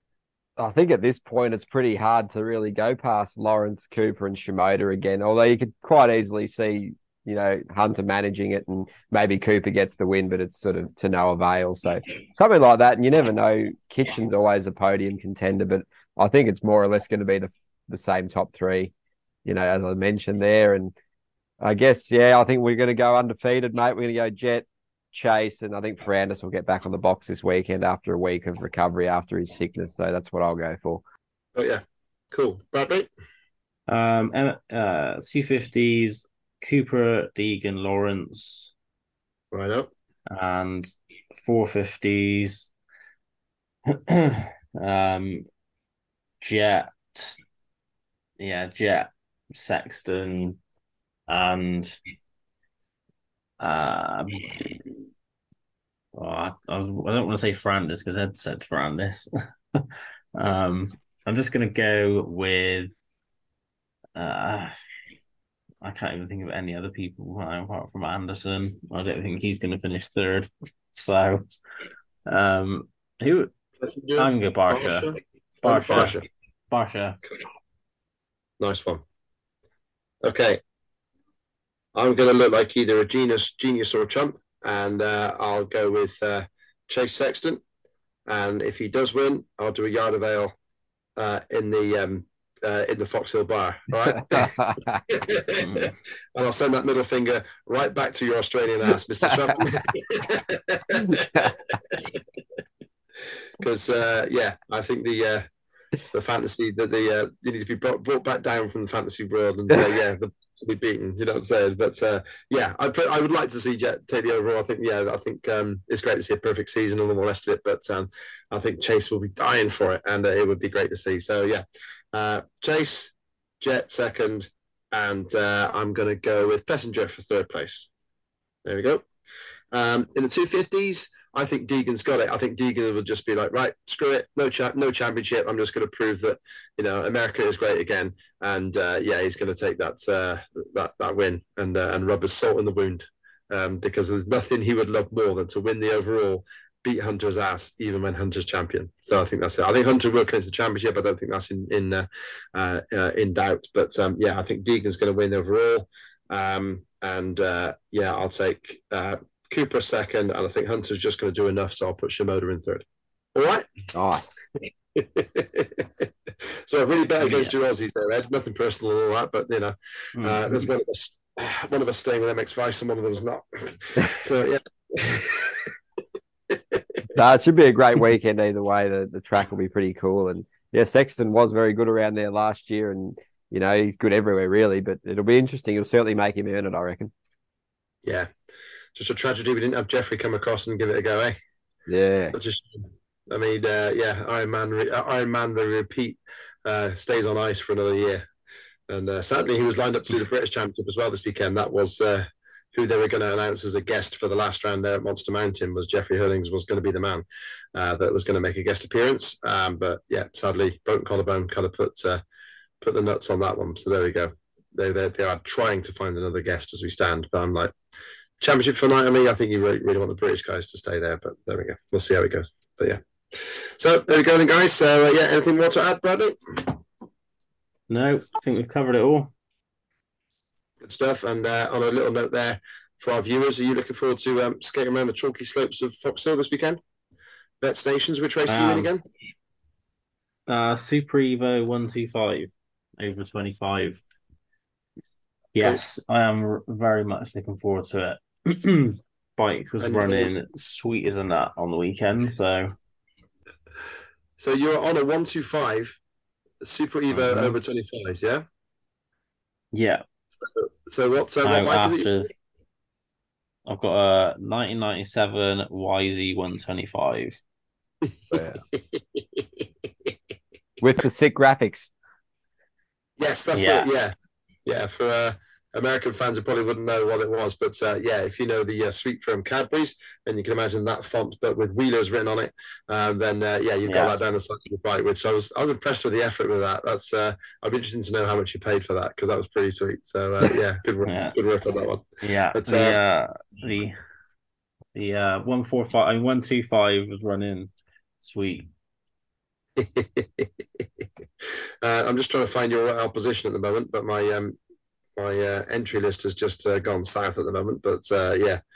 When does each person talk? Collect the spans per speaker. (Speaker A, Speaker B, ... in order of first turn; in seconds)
Speaker A: 0.6-18.9, 19.4-20.9, 21.6-31.0, 94.1-95.0, 101.1-101.5, 163.9-164.4, 177.1-187.1, 191.9-192.3, 268.3-268.6, 270.8-271.9
Speaker B: 31.6-33.1, 39.5-39.9, 73.8-76.2, 78.6-79.0, 80.2-80.6, 82.0-87.6, 88.3-90.5, 91.2-102.2, 103.6-105.5, 106.1-127.9, 128.7-129.1, 129.7-163.7, 164.9-166.0, 166.7-175.7, 176.5-176.8, 188.9-191.4, 192.3-198.2, 198.9-212.2, 212.8-217.7, 218.4-223.0, 223.8-226.8, 230.8-236.8, 237.6-239.0, 249.8-250.3, 254.4-256.0, 256.6-258.4, 260.4-262.1, 268.3-269.4, 273.2-274.1, 274.7-293.0, 299.8-300.5, 301.8-304.6, 305.2-308.6
Speaker C: 33.9-38.7, 40.3-42.7, 43.9-45.5, 46.4-47.4, 48.4-50.6, 51.3-52.0, 53.6-55.0, 56.1-62.9, 64.2-64.7, 65.8-71.5, 72.3-73.5, 74.2-75.1, 75.6-76.2, 76.7-77.2, 95.5-95.9, 167.2-167.5, 170.2-170.7, 227.9-229.3, 238.5-238.9, 240.5-244.0, 245.6-252.7, 257.1-257.6, 259.7-260.0, 261.4-262.3, 263.7-267.4, 273.6-273.9, 283.9-284.1, 291.1-291.4, 292.2-294.0, 294.9-297.7, 298.2-298.7